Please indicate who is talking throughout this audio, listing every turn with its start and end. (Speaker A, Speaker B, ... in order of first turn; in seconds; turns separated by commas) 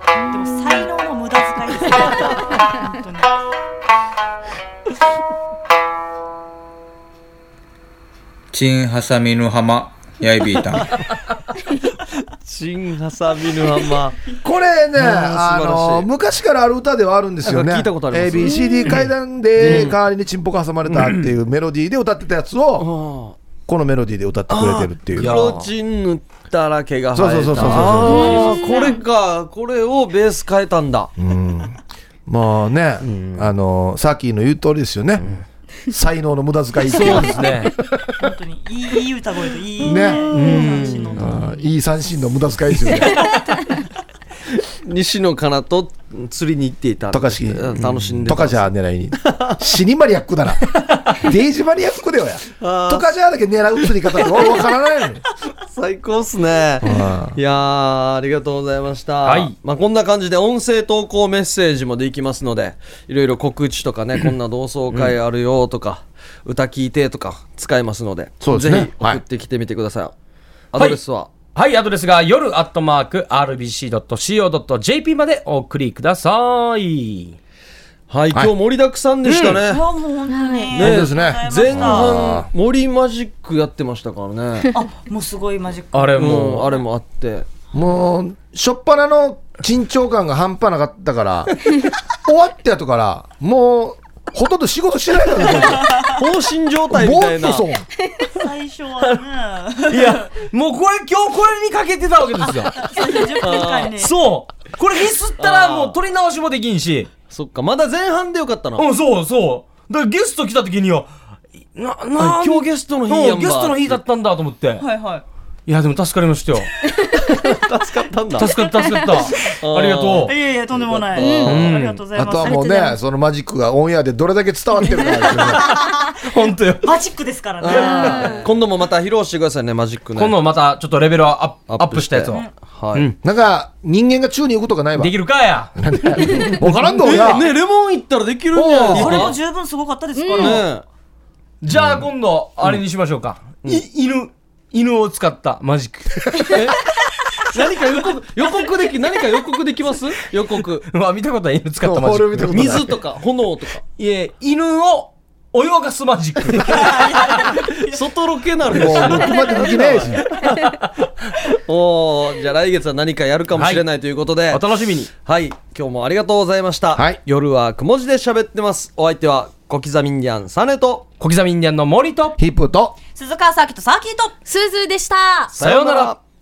Speaker A: 0.2-0.8, Speaker B: 0.3-3.3, Speaker C: 8.5-10.9, Speaker D: 12.4-14.4, Speaker E: 14.4-22.9, Speaker D: 14.9-16.1, Speaker D: 17.4-18.9, Speaker A: 18.4-19.0, Speaker D: 19.6-19.9, Speaker F: 19.6-19.9, Speaker F: 20.9-21.3, Speaker D: 22.8-23.4, Speaker E: 23.7-25.4, Speaker D: 24.5-31.1, Speaker F: 25.1-25.7, Speaker E: 27.1-28.6, Speaker F: 27.6-28.0, Speaker A: 28.1-29.0, Speaker E: 31.2-35.4, Speaker F: 33.0-33.5, Speaker E: 35.9-37.5, Speaker F: 36.9-38.0, Speaker B: 38.2-41.7, Speaker E: 39.8-40.5, Speaker A: 40.1-40.9, Speaker F: 40.3-41.3, Speaker E: 41.1-43.3, Speaker D: 44.6-48.7, Speaker E: 47.1-55.2, Speaker D: 49.2-49.6, Speaker D: 52.6-53.1, Speaker D: 55.6-70.1, Speaker E: 56.8-57.4, Speaker F: 59.2-59.5, Speaker E: 68.4-69.2, Speaker D: 70.7-71.3, Speaker F: 70.8-71.0, Speaker F: 71.5-77.3, Speaker D: 78.1-79.8, Speaker F: 79.2-79.6, Speaker B: 79.7-82.2, Speaker A: 80.3-80.7, Speaker D: 80.7-84.7, Speaker E: 80.7-82.5, Speaker B: 84.7-86.8, Speaker F: 85.9-86.7, Speaker D: 86.2-87.5, Speaker E: 87.7-96.0, Speaker B: 95.5-96.1, Speaker D: 95.9-97.7, Speaker E: 96.9-97.8, Speaker B: 98.3-100.3, Speaker F: 99.9-102.9, Speaker B: 102.5-104.1, Speaker D: 103.4-103.9, Speaker F: 104.0-107.1, Speaker D: 105.4-106.0, Speaker D: 107.3-108.8, Speaker F: 108.8-111.1, Speaker F: 111.7-114.8, Speaker D: 112.2-114.0, Speaker B: 114.8-115.2, Speaker F: 115.7-116.7, Speaker D: 117.4-118.5, Speaker F: 118.4-120.3, Speaker A: 118.8-119.0, Speaker D: 119.3-121.8, Speaker B: 120.2-122.8, Speaker A: 121.2-121.6, Speaker F: 121.5-122.0, Speaker E: 122.2-125.6, Speaker A: 122.4-122.9, Speaker B: 125.4-126.1, Speaker F: 125.4-126.9, Speaker B: 126.8-128.4, Speaker D: 127.6-130.4, Speaker F: 127.7-128.2, Speaker A: 127.7-128.4, Speaker F: 130.2-133.1, Speaker D: 131.7-133.1, Speaker E: 133.2-135.1, Speaker F: 135.0-136.8, Speaker E: 135.8-137.5, Speaker D: 137.0-139.4, Speaker E: 138.5-139.3, Speaker B: 138.9-140.7, Speaker A: 140.1-140.6, Speaker D: 140.3-140.8, Speaker F: 141.6-146.7, Speaker E: 141.7-142.1, Speaker D: 146.5-146.8, Speaker D: 147.4-150.8, Speaker F: 150.8-152.8, Speaker E: 151.8-152.9, Speaker D: 152.5-153.8, Speaker F: 153.9-157.5, Speaker B: 156.6-158.0, Speaker D: 157.8-160.8, Speaker E: 158.7-160.2, Speaker F: 160.6-160.9, Speaker D: 161.6-164.6, Speaker F: 163.5-163.8, Speaker F: 164.5-165.1, Speaker D: 165.2-171.1, Speaker E: 166.9-167.2, Speaker F: 171.2-172.4, Speaker E: 172.4-172.9, Speaker B: 173.1-174.4, Speaker A: 174.4-175.5, Speaker D: 175.5-176.2, Speaker F: 175.6-176.1